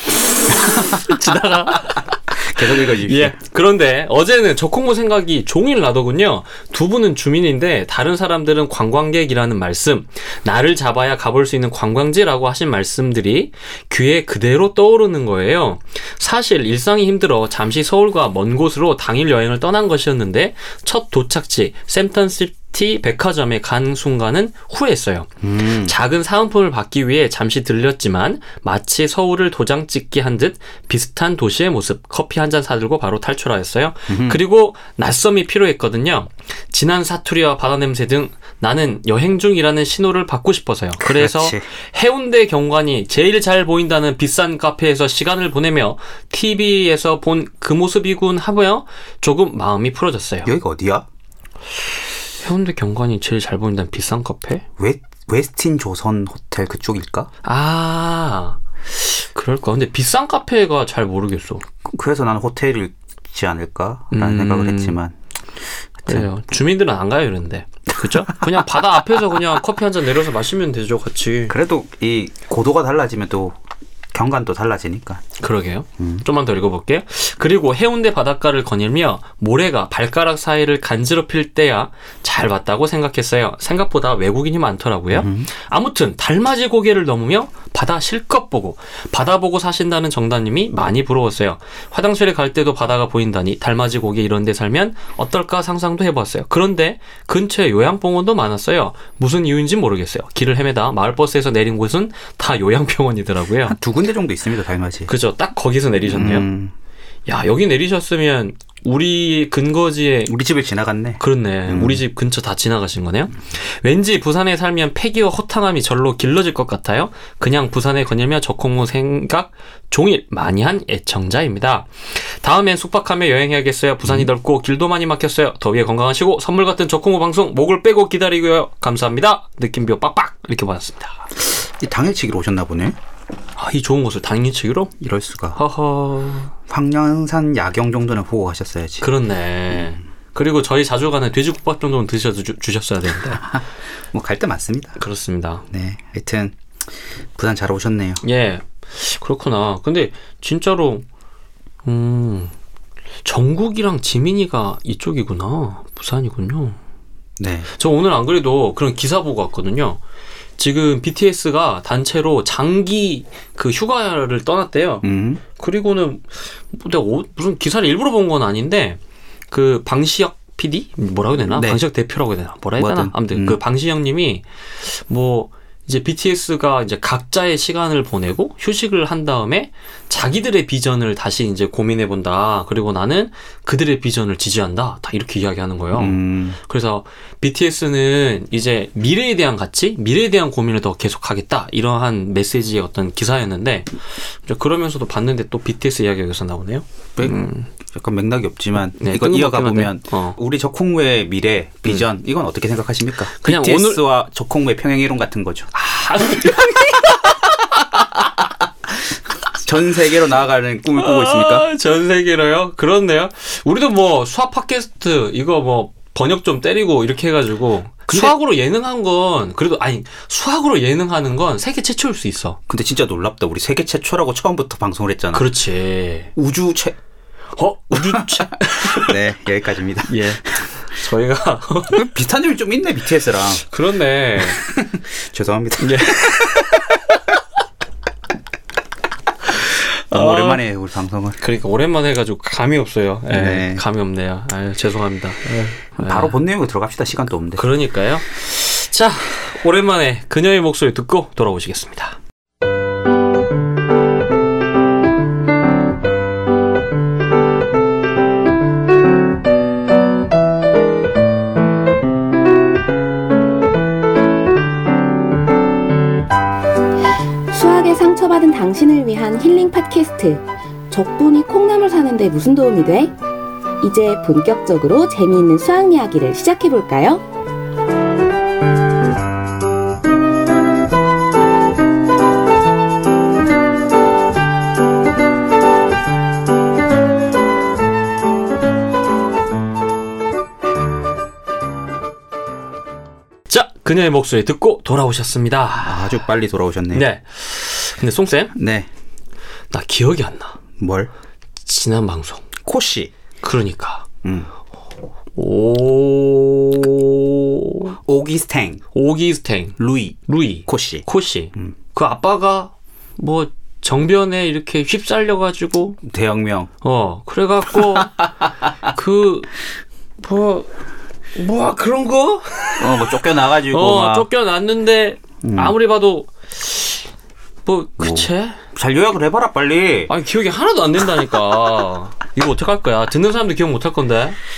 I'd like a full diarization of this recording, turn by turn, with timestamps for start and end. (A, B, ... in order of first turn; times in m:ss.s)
0:00.4-0:03.4 A
0:00.6-0:50.5 B
0:25.4-0:25.9 A
0:34.1-0:34.4 A
0:41.0-0:41.6 A
0:50.4-0:51.0 A
0:52.4-0:54.6 B
0:54.8-0:57.3 A
0:57.4-1:01.6 B
1:01.8-1:05.1 A
1:04.1-1:05.0 B
1:06.1-1:11.6 B
1:08.0-1:08.6 A
1:11.5-1:13.5 A
1:14.1-1:15.2 A
1:15.4-1:43.8 B
1:16.0-1:16.2 A
1:25.1-1:25.5 A
1:43.7-1:45.1 A
1:45.1-1:46.4 B
1:46.1-1:46.7 A
1:47.3-1:50.3 B
1:50.3-1:52.0 A
1:51.2-2:11.2 B
2:11.4-2:13.0 A
2:13.6-2:14.9 B
2:15.0-2:15.6 A
2:15.6-2:16.5 B
2:16.7-2:19.1 A
2:19.0-2:23.4 B
2:23.4-2:25.0 A
2:25.0-2:25.6 B
2:25.7-2:26.6 A
2:27.4-2:28.2 A
2:28.2-2:31.0 B
2:31.8-2:32.5 B
2:33.2-2:36.8 B
2:37.4-2:37.7 A
2:37.8-2:40.0 B
2:40.6-2:49.0 B
2:45.0-2:45.4 A
2:49.5-3:13.9 B
2:51.5-2:51.8 A
2:52.8-2:53.6 A
3:05.9-3:06.6 A
3:14.4-3:17.7 B
3:17.9-3:25.7 A
3:19.0-3:20.4 B
3:23.4-3:24.0 B
3:25.7-3:27.8 B
3:26.4-3:27.5 A
3:29.5-3:31.7 A
3:31.0-3:42.6 B
3:38.1-3:38.3 A
3:42.7-3:45.5 A
3:45.3-3:46.3 B
3:46.3-3:47.0 A
3:47.6-3:49.2 B
3:47.9-3:50.1 A
3:50.0-3:52.1 B
3:51.9-3:53.6 A
3:53.6-3:54.6 B
3:54.5-3:56.6 A
3:55.8-3:57.2 B
3:59.6-4:00.6 B
4:00.1-4:01.4 A
4:01.4-4:06.3 B
4:03.3-4:03.8 A
4:06.0-4:07.6 A
4:07.6-4:12.2 B
4:27.5-4:33.1 C
4:33.8-4:37.2 C
4:53.5-4:56.0 B
4:55.8-4:57.0 A
4:56.9-4:58.5 B
4:58.5-4:58.9 A
4:59.7-5:00.6 B
5:00.8-5:01.1 A
5:01.6-5:02.4 B
5:02.6-5:03.1 A
5:03.4-5:04.0 B
5:04.2-5:04.5 A
5:05.4-5:08.0 B
5:08.0-5:08.8 A
5:08.9-5:16.0 B
5:09.8-5:11.0 A
5:16.0-5:16.7 A
5:16.8-5:18.2 B
5:18.9-5:19.5 B
5:20.2-5:20.7 B
5:21.3-5:23.2 B
5:22.8-5:24.3 A
5:23.7-5:27.0 B
5:25.4-5:25.8 A
5:27.6-5:28.6 B
5:28.0-5:30.1 A
5:30.1-5:34.4 B